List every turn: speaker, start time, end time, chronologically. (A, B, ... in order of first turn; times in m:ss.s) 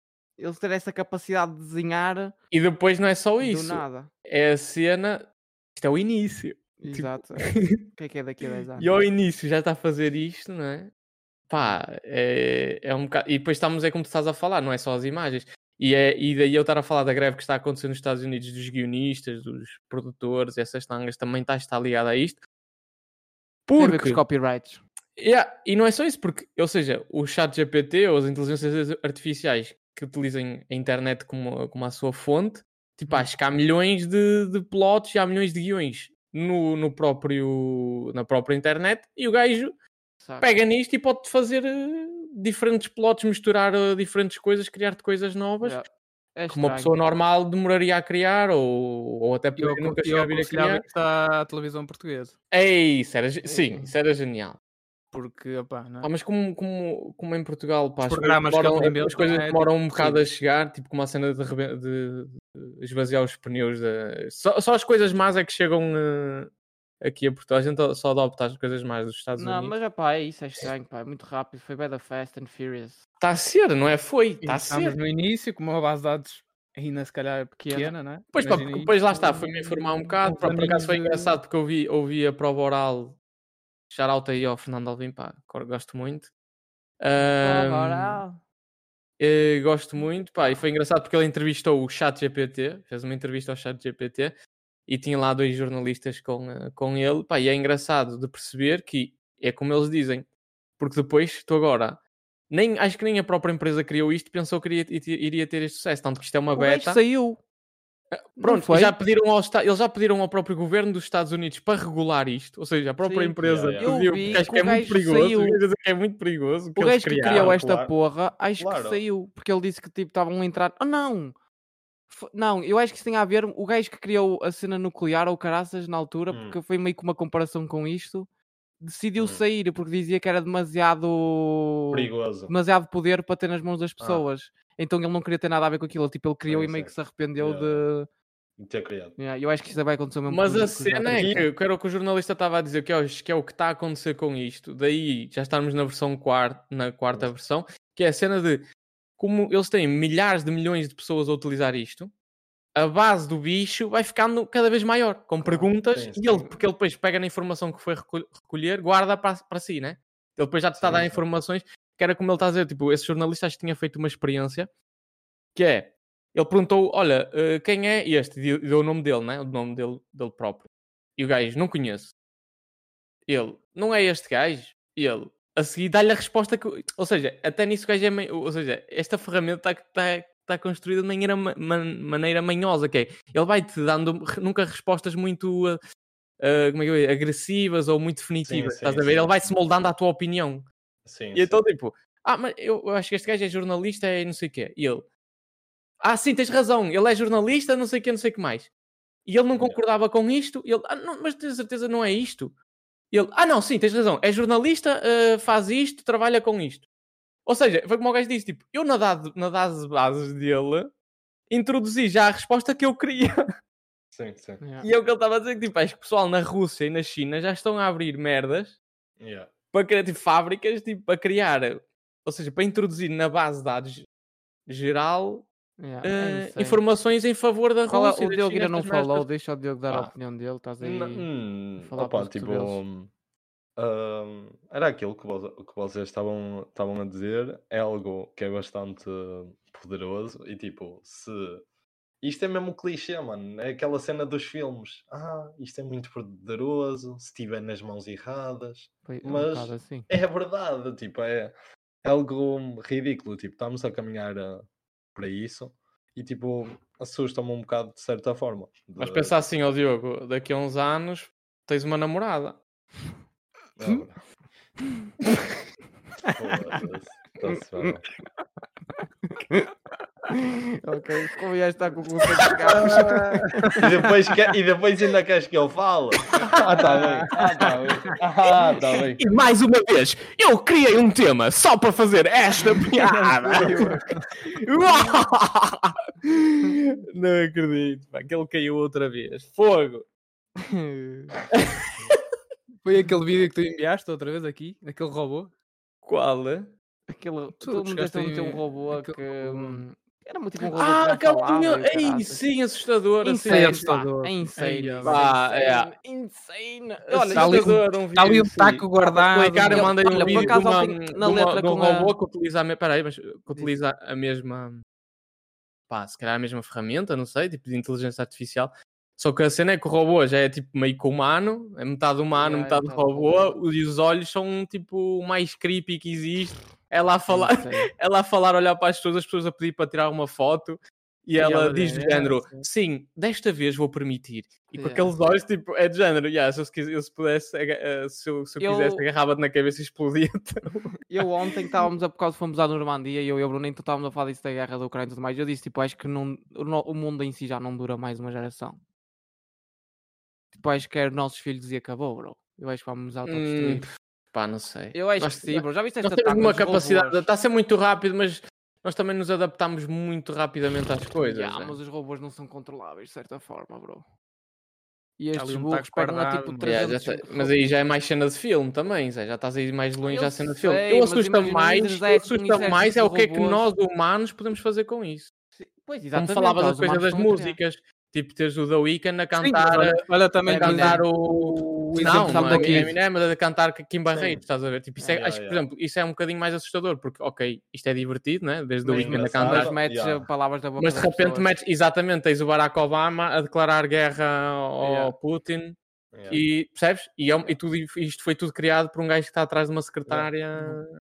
0:00.4-0:02.3 A
0:02.5-0:07.8 B
0:03.4-0:04.1 A
0:06.8-0:08.9 A
0:08.8-0:10.9 B
0:11.5-0:22.4 B
0:23.7-0:24.2 B
0:23.8-0:24.8 A
0:25.2-0:39.7 B
0:40.2-0:40.5 A
0:40.4-0:45.8 B
0:45.6-0:46.9 A
0:46.5-0:50.8 B
0:49.6-0:52.3 C
0:52.5-0:54.6 B
0:53.4-0:53.9 A
0:55.1-0:56.1 C
0:56.0-1:09.7 B
0:58.0-1:00.2 C
1:09.4-1:13.0 A
1:13.2-1:15.0 B
1:14.4-1:19.5 C
1:17.6-1:17.9 A
1:18.3-1:23.2 B
1:20.2-1:21.4 C
1:23.9-1:26.3 B
1:27.0-1:28.2 B
1:27.3-1:28.4 A
1:29.2-1:34.3 B
1:34.9-1:47.0 B
1:46.5-1:47.4 A
1:48.1-1:57.6 B
1:48.4-1:48.9 A
1:53.0-1:55.6 A
1:53.4-1:54.5 D
1:56.8-2:01.3 A
1:57.2-1:57.9 D
1:58.6-1:59.0 D
2:02.1-2:08.3 A
2:06.3-2:06.6 D
2:08.8-2:18.1 A
2:11.9-2:12.5 D
2:16.5-2:17.8 D
2:18.6-2:19.2 D
2:19.2-2:21.5 A
2:20.3-2:28.6 B
2:21.1-2:21.4 D
2:29.2-2:32.1 B
2:32.7-2:44.7 B
2:35.8-2:36.4 D
2:40.8-2:41.2 D
2:45.5-2:52.1 B
2:53.3-3:05.8 B
3:06.4-3:10.6 B
3:08.4-3:09.4 D
3:11.0-3:11.6 D
3:11.3-3:15.0 B
3:16.0-3:18.7 B
3:19.2-3:22.5 B
3:19.5-3:19.8 D
3:23.1-3:26.8 B
3:27.4-3:30.9 B
3:31.5-3:33.4 B
3:34.1-3:34.6 D
3:34.6-3:34.9 A
3:34.8-3:38.8 B
3:39.2-3:39.5 D
3:39.7-3:44.1 B
3:44.7-3:45.5 B
3:45.8-3:46.8 A
3:46.0-3:49.3 B
3:47.9-3:51.3 A
3:50.8-3:53.1 D
3:51.8-3:52.8 A
3:53.8-4:01.6 D
4:02.2-4:11.5 D
4:09.0-4:10.1 A
4:12.0-4:19.4 D
4:19.0-4:22.6 B
4:23.8-4:24.2 D
4:26.3-4:28.0 D
4:27.5-4:28.0 A
4:29.3-4:29.7 A
4:30.3-4:33.3 A
4:32.8-4:33.5 B
4:32.9-4:33.9 C
4:33.8-4:39.2 D
4:39.1-4:50.0 B
4:42.9-4:44.1 A
4:50.6-4:51.3 A
4:51.5-4:52.2 B
4:52.8-4:55.5 C
4:56.0-4:56.7 B
4:57.1-5:02.4 A
4:57.6-4:59.8 C
5:00.7-5:03.8 B
5:03.2-5:07.7 A
5:03.5-5:05.2 C
5:05.0-5:05.9 B
5:07.1-5:14.8 B
5:07.3-5:10.6 C
5:09.7-5:12.1 A
5:15.9-5:41.0 B
5:22.3-5:23.6 A
5:27.3-5:27.9 A
5:31.4-5:32.6 A
5:34.7-5:35.1 A
5:38.6-5:39.0 A
5:41.0-5:48.8 A
5:50.5-5:53.9 A
5:53.2-6:01.8 B
5:54.9-5:57.3 A
6:01.2-6:04.0 A
6:05.2-6:07.6 A
6:05.3-6:06.8 C
6:06.6-6:15.3 B
6:10.0-6:13.6 A
6:15.6-6:17.6 A
6:16.1-6:20.0 B
6:19.4-6:22.9 C
6:20.4-6:21.0 A
6:20.5-6:29.7 B
6:22.0-6:22.9 A
6:24.1-6:24.4 D
6:25.1-6:25.6 D
6:28.8-6:31.5 A
6:28.9-6:30.2 D
6:30.8-6:35.8 B
6:34.8-6:35.1 A
6:36.1-6:36.4 D
6:36.3-6:40.9 B